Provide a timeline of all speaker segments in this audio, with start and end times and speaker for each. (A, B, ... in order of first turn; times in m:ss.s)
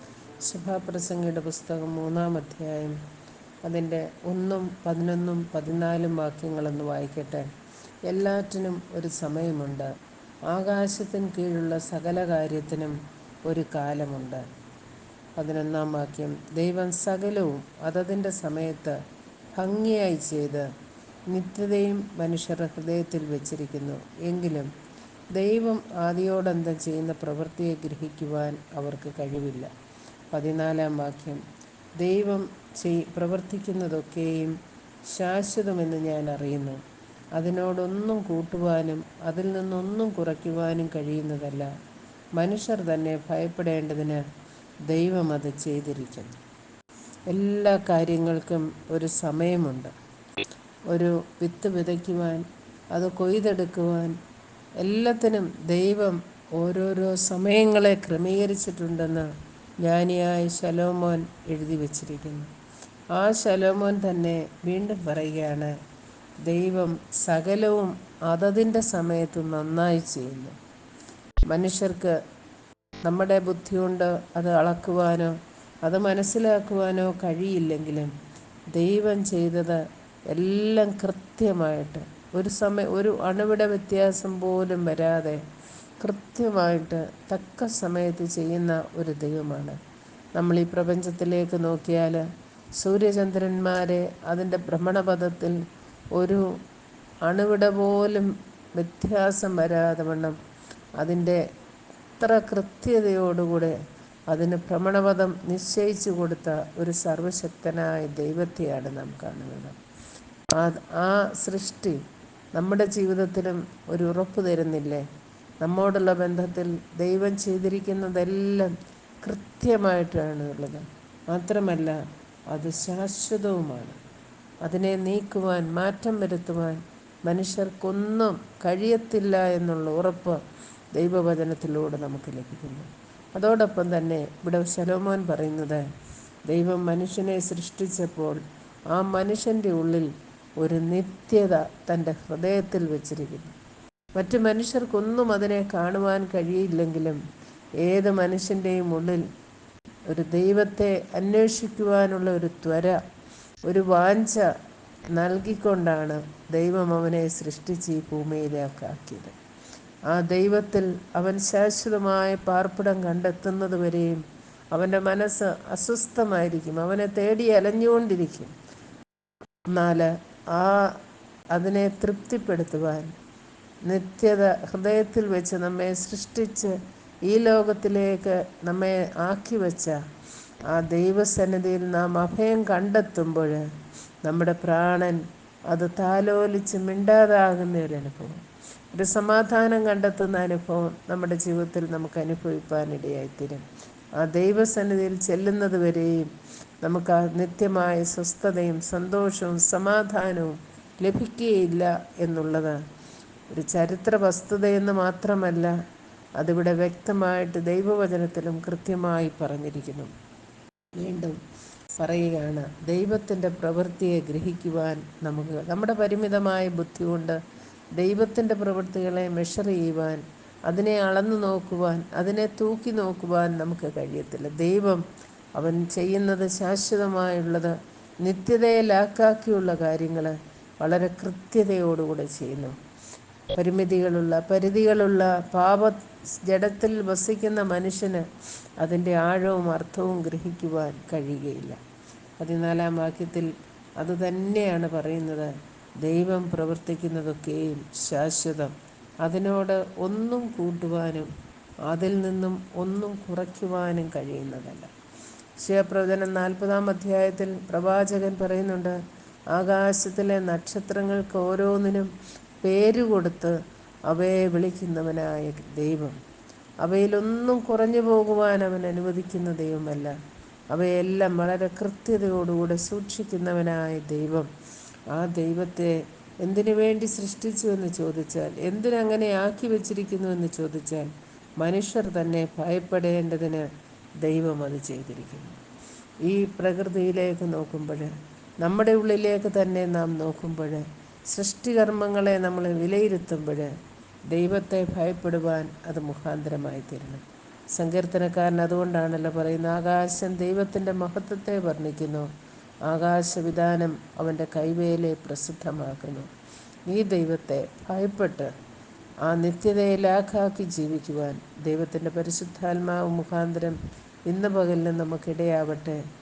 0:00.4-0:03.0 A
0:03.6-0:07.5 A
0:08.1-0:09.9 A
0:10.5-0:14.5 A
0:15.4-0:19.0 A
0:19.5-0:20.7 A
0:21.3-0:24.7 A
0:25.3-0:29.7 A
0:30.3-0:31.4 A
0:32.0-0:36.8 A
0:37.4-0:41.7 A
0:42.4-0:44.2 A
0:44.9-0:46.4 A
0:47.3-0:49.9 A
0:50.9-0:54.2 A
0:54.8-0:59.3 A
0:59.8-1:02.5 A
1:03.1-1:05.7 A
1:06.4-1:10.5 A
1:11.5-1:12.2 A
1:13.0-1:18.1 A
1:18.7-1:25.4 A
1:26.0-1:29.8 A
1:30.3-1:32.2 A
1:32.8-1:35.6 A
1:36.1-1:36.5 A
1:37.2-1:40.4 A
1:41.0-1:41.4 A
1:42.2-1:43.8 A
1:44.3-1:49.8 A
1:50.5-1:52.0 A
1:52.5-1:55.0 A
1:55.6-2:02.0 A
2:02.5-2:04.0 A
2:04.6-2:10.4 A
2:10.9-2:15.8 A
2:16.5-2:23.5 A
2:24.1-2:27.2 A
2:27.8-2:29.2 A
2:30.1-2:33.0 A
2:33.6-2:34.5 A
2:35.1-2:39.3 A
2:40.1-2:48.5 A
2:49.7-2:51.0 A
2:51.5-2:53.1 A
2:53.8-2:56.7 A
2:57.2-3:00.0 A
3:00.7-3:03.6 A
3:04.2-3:08.4 A
3:08.9-3:13.6 A
3:14.2-3:16.3 A
3:16.8-3:22.8 A
3:23.5-3:25.7 A
3:26.4-3:30.1 A
3:31.0-3:31.4 A
3:32.0-3:37.4 A
3:38.0-3:45.0 A
3:45.6-3:52.7 A
3:53.5-3:58.2 A
3:58.8-4:01.8 A
4:02.4-4:11.3 A
4:11.8-4:14.9 A
4:15.6-4:19.0 A
4:19.5-4:23.6 A
4:24.1-4:26.2 A
4:26.8-4:30.1 A
4:30.7-4:34.5 A
4:35.1-4:43.7 A
4:44.2-4:45.6 A
4:46.2-4:53.7 A
4:54.3-5:02.3 A
5:02.8-5:06.3 A
5:06.9-5:08.5 A
5:09.2-5:16.0 A